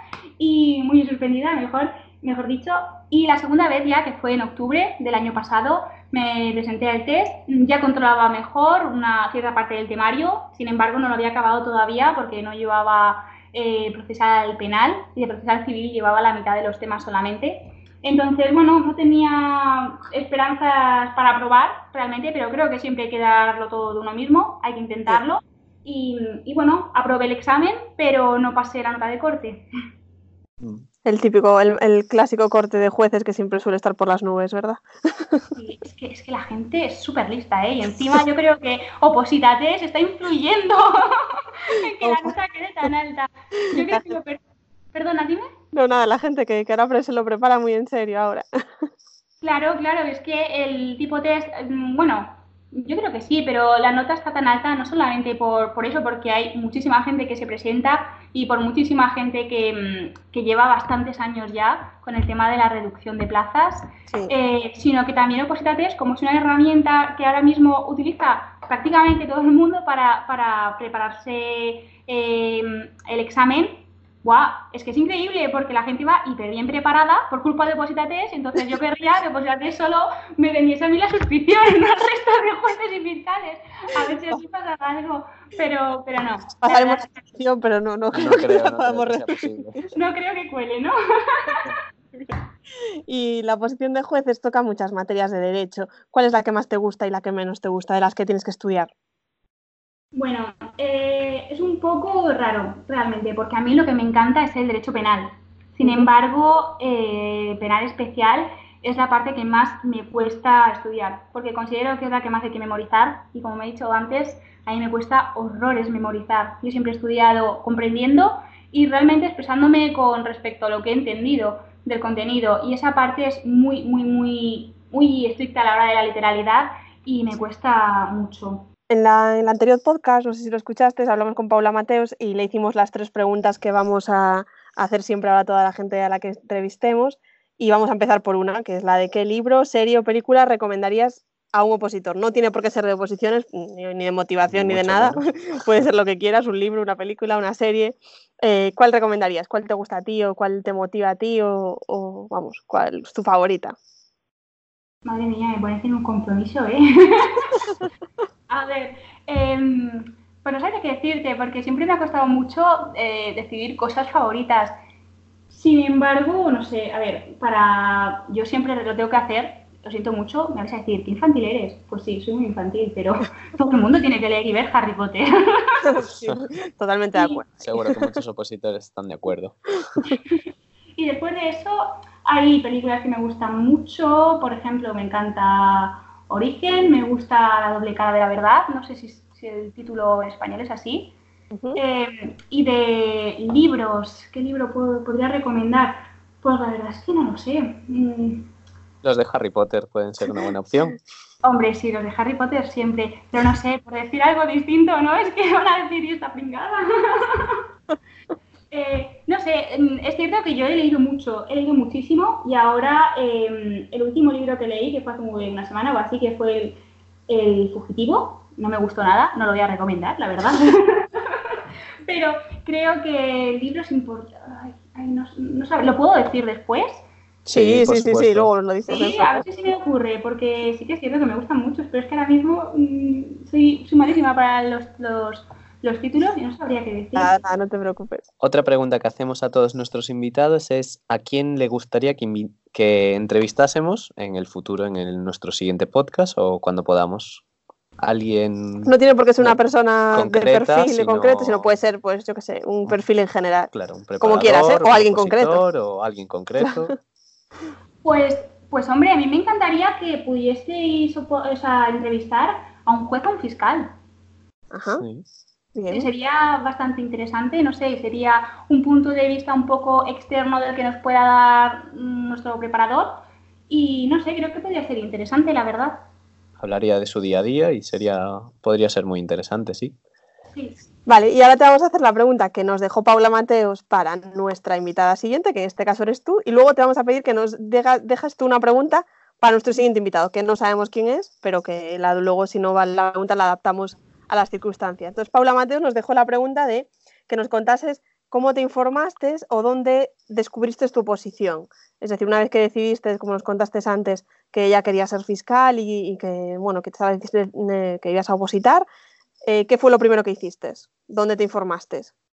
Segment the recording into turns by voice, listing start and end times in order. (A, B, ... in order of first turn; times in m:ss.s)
0:00.4-0:29.6 A
0:31.0-0:35.5 B
0:35.5-0:44.4 A
0:42.0-0:42.3 B
0:43.7-0:44.1 B
0:44.9-0:45.5 A
0:45.7-0:48.9 B
0:49.4-1:27.1 A
1:26.6-1:29.5 B
1:28.1-1:29.9 C
1:29.9-1:31.6 A
1:33.1-1:38.9 B
1:40.1-2:08.7 A
1:45.8-1:46.1 B
2:08.9-2:33.8 B
2:24.5-2:25.2 C
2:35.0-2:37.6 A
2:38.5-2:44.7 A
2:45.5-2:56.0 A
2:55.9-2:58.2 B
2:57.1-2:57.4 A
2:57.6-2:59.8 C
3:01.0-3:11.1 A
3:11.5-3:11.8 B
3:11.8-3:18.5 A
3:19.0-3:21.0 C
3:21.4-3:27.6 A
3:28.7-3:47.0 A
3:47.4-3:48.5 C
3:47.5-3:49.4 B
3:48.9-3:57.4 A
3:57.2-3:58.2 B
3:58.4-4:07.4 C
4:08.0-4:09.6 C
4:08.8-4:13.7 B
4:10.1-4:11.7 C
4:13.7-4:17.0 C
4:14.2-4:15.6 B
4:16.6-4:16.9 B
4:18.0-4:23.9 A
4:24.7-4:25.0 B
4:25.0-4:25.2 C
4:25.7-4:26.1 B
4:25.9-4:33.2 A
4:33.7-4:36.0 A
4:36.6-4:40.0 C
4:41.0-5:08.8 B
5:09.4-5:12.1 B